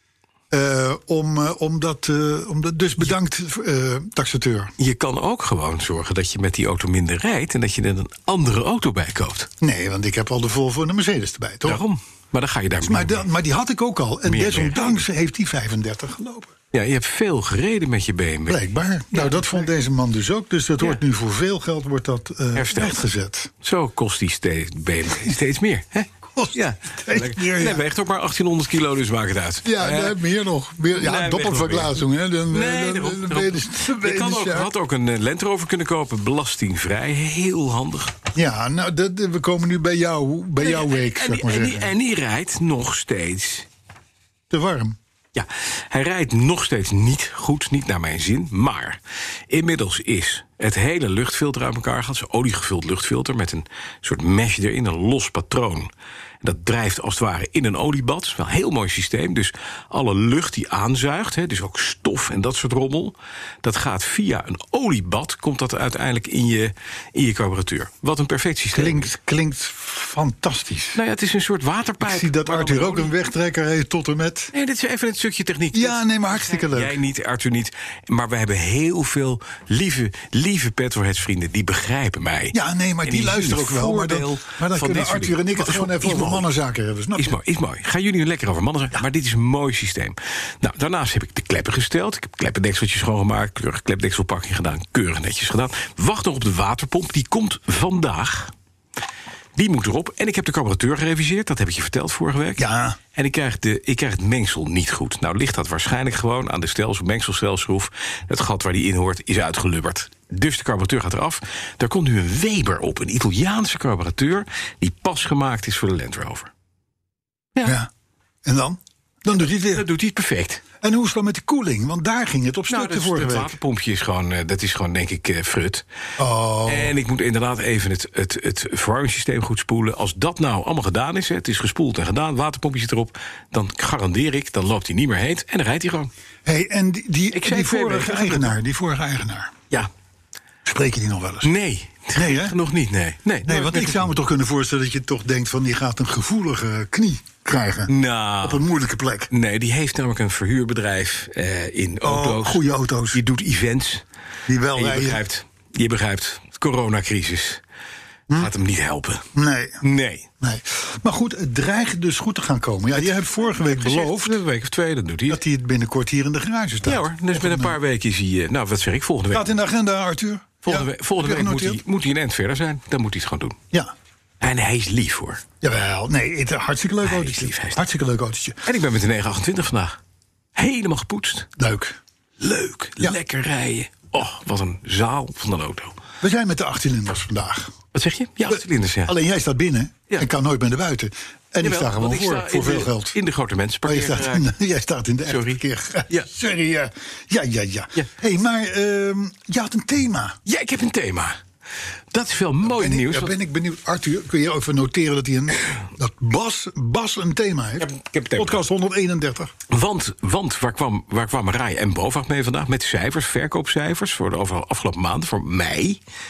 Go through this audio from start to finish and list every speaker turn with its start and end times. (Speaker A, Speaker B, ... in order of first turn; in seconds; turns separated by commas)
Speaker A: 0.5-4.7, Speaker B: 4.8-9.5, Speaker A: 9.6-11.8, Speaker B: 11.6-13.3, Speaker A: 12.8-16.6, Speaker B: 14.3-15.0, Speaker B: 16.7-19.7, Speaker A: 18.5-23.5, Speaker B: 22.6-23.0, Speaker B: 23.6-30.2, Speaker A: 26.4-27.8, Speaker A: 29.6-34.7, Speaker B: 30.9-38.1, Speaker A: 38.4-41.9, Speaker B: 40.6-43.7, Speaker A: 44.5-45.0, Speaker B: 45.3-49.0, Speaker B: 49.5-55.9, Speaker B: 56.4-69.1, Speaker A: 68.7-71.0, Speaker B: 71.0-73.1, Speaker A: 72.0-74.5, Speaker B: 74.5-86.5, Speaker A: 75.7-77.0, Speaker A: 82.5-87.4, Speaker B: 87.2-98.5, Speaker B: 99.6-102.6, Speaker A: 102.6-103.0, Speaker B: 103.2-116.5, Speaker A: 117.6-117.9, Speaker A: 118.5-119.9, Speaker B: 119.5-120.6, Speaker A: 120.8-123.6, Speaker B: 122.7-125.8, Speaker A: 126.2-127.0, Speaker B: 126.7-136.1, Speaker A: 136.5-139.6, Speaker B: 137.3-138.6, Speaker A: 140.7-141.5, Speaker B: 141.4-144.1, Speaker A: 142.2-142.6, Speaker A: 143.5-149.3, Speaker B: 147.9-148.7, Speaker B: 149.3-154.0, Speaker A: 152.0-153.2, Speaker A: 154.5-155.2, Speaker B: 154.8-157.6, Speaker B: 158.3-159.3, Speaker A: 159.3-159.8, Speaker B: 159.8-160.3, Speaker A: 160.4-164.4, Speaker B: 163.7-165.4, Speaker A: 165.3-167.8, Speaker B: 166.8-169.5, Speaker A: 169.3-171.8, Speaker B: 170.7-173.6, Speaker B: 174.4-175.4, Speaker A: 175.6-178.7, Speaker B: 177.0-177.8, Speaker B: 178.7-180.0, Speaker B: 180.6-181.5, Speaker A: 181.6-182.0, Speaker B: 182.4-185.9, Speaker A: 186.2-187.8, Speaker B: 187.9-189.2, Speaker A: 188.5-193.2, Speaker B: 191.6-194.5, Speaker A: 193.9-200.4, Speaker B: 195.3-196.3, Speaker B: 200.5-201.4, Speaker B: 202.1-203.3, Speaker A: 202.6-209.5, Speaker B: 207.8-208.6, Speaker B: 209.7-216.0